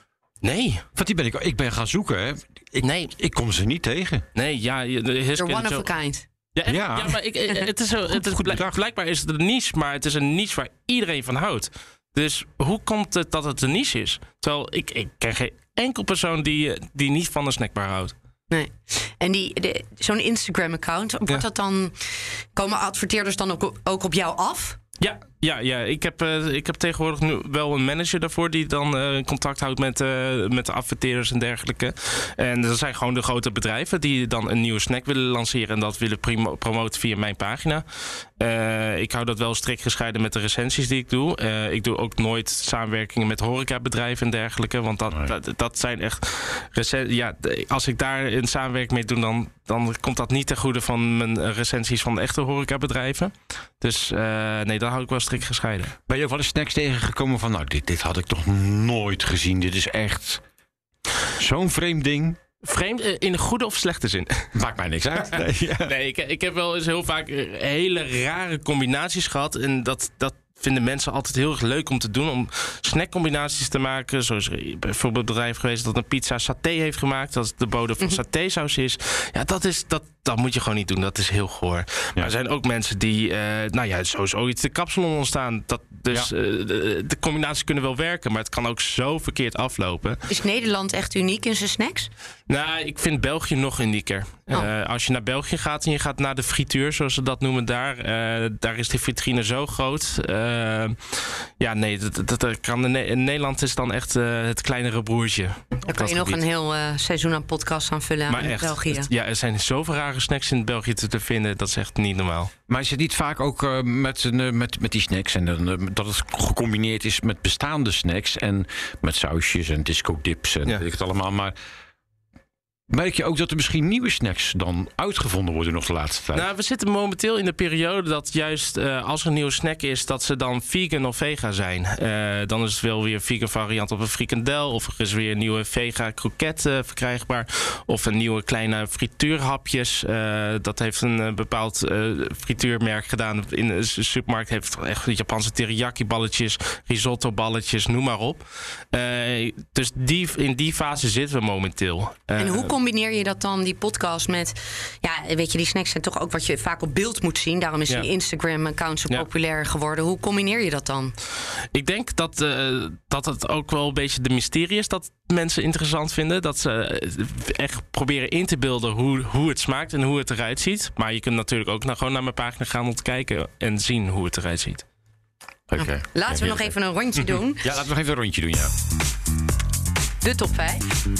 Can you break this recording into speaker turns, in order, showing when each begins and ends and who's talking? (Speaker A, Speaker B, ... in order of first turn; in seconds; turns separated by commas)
Speaker A: 0.4-0.8, Speaker B: 0.9-4.2, Speaker A: 2.8-3.1, Speaker A: 4.3-5.9, Speaker C: 5.4-6.2, Speaker A: 6.5-18.1, Speaker B: 6.7-7.2, Speaker B: 8.1-8.8, Speaker C: 18.5-24.8, Speaker A: 25.0-55.9, Speaker B: 56.1-60.4, Speaker B: 61.4-62.4, Speaker A: 62.6-64.5, Speaker B: 64.5-65.9, Speaker A: 65.8-90.2, Speaker C: 90.3-92.1, Speaker A: 92.5-105.6, Speaker C: 105.8-109.1, Speaker B: 106.0-106.4, Speaker A: 108.3-112.5, Speaker B: 112.7-121.5, Speaker B: 122.9-126.5, Speaker A: 126.3-152.7, Speaker C: 152.4-161.2, Speaker A: 161.7-174.8, Speaker B: 175.7-176.7, Speaker C: 175.8-177.6, Speaker B: 177.6-178.7, Speaker C: 180.2-180.9